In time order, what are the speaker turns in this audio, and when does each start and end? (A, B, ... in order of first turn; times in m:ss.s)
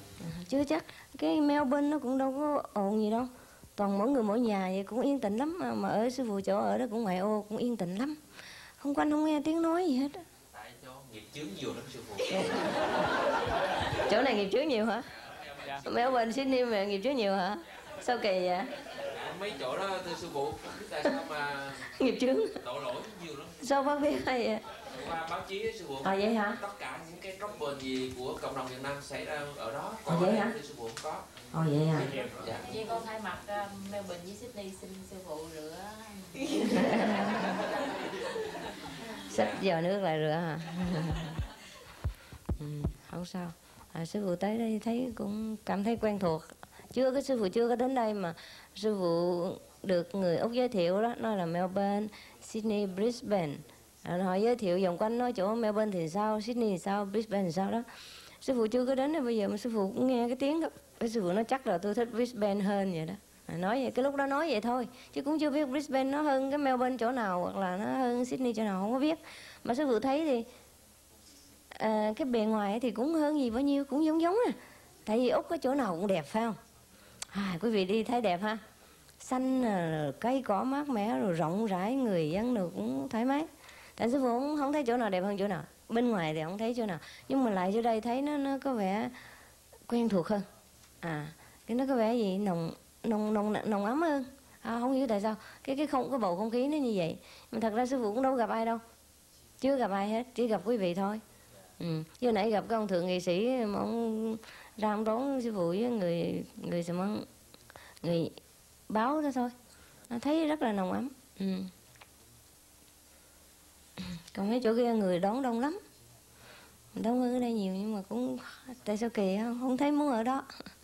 0:00.2-0:08.2 A
0:08.8-0:10.2 A
0:10.5-0:12.8 B
0:12.3-0:12.7 A
0:14.0-0:15.0 A
0:15.2-0:16.4 B
0:15.8-0:18.7 A
0:19.1-0:21.9 B
0:21.8-0:22.6 A
0:22.6-0:23.6 B
0:23.6-0:24.6 A
0:24.8-0:31.2 B
0:26.0-0:26.6 A
0:30.0-0:30.5 A
0:31.5-0:32.2 A
0:31.9-0:32.7 B
0:32.6-0:37.8 C
0:36.5-0:37.6 A
0:39.3-0:41.4 A
0:39.3-0:39.6 B
0:42.6-0:57.8 A
0:58.4-1:10.5 A
1:11.7-1:16.6 A
1:17.3-1:18.6 A
1:19.2-1:29.1 A
1:29.9-1:30.5 A
1:31.0-1:38.8 A
1:39.6-1:41.2 A
1:41.8-1:47.3 A
1:48.0-1:48.4 A
1:48.9-1:49.5 A
1:50.1-1:51.7 A
1:54.0-1:55.8 A
1:56.9-2:00.7 A